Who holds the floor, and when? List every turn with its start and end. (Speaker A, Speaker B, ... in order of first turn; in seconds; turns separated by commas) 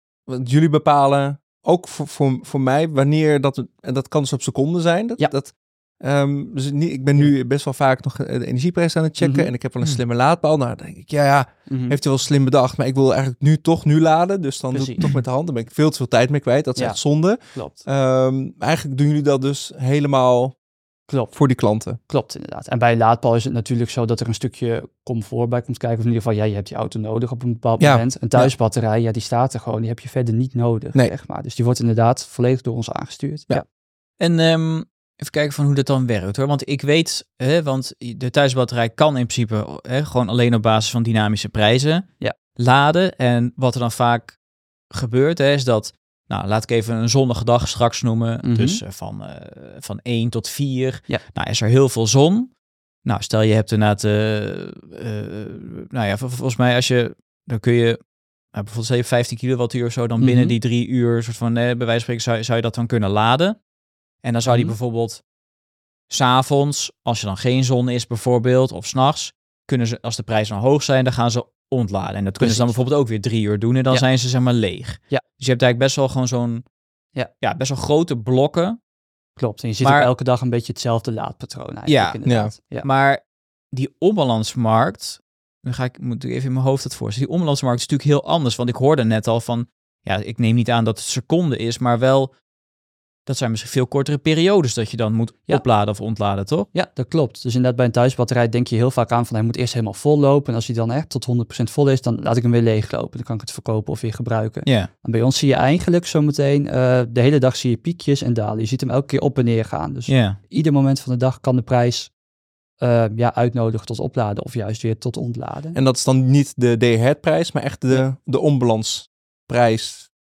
Speaker A: 0.3-20.5, Speaker B: 9.2-9.5, Speaker B: 11.7-12.0, Speaker B: 14.7-15.1, Speaker B: 17.5-17.8, Speaker B: 21.1-21.3, Speaker A: 21.3-22.0, Speaker B: 22.1-33.6, Speaker A: 27.8-28.5, Speaker C: 34.2-44.4, Speaker C: 44.9-52.5, Speaker B: 48.4-48.8, Speaker C: 53.0-58.0, Speaker C: 58.5-63.6, Speaker B: 60.2-60.5, Speaker C: 64.2-65.2, Speaker B: 64.5-64.7, Speaker C: 66.1-76.6, Speaker B: 72.4-72.7, Speaker C: 77.4-78.8, Speaker B: 79.4-82.8, Speaker C: 79.8-80.1, Speaker C: 81.9-82.2, Speaker A: 82.2-82.5, Speaker C: 82.8-83.2, Speaker C: 83.7-92.3, Speaker C: 93.2-96.7, Speaker B: 96.7-112.1, Speaker C: 110.1-110.4, Speaker B: 112.8-115.8, Speaker A: 115.7-120.1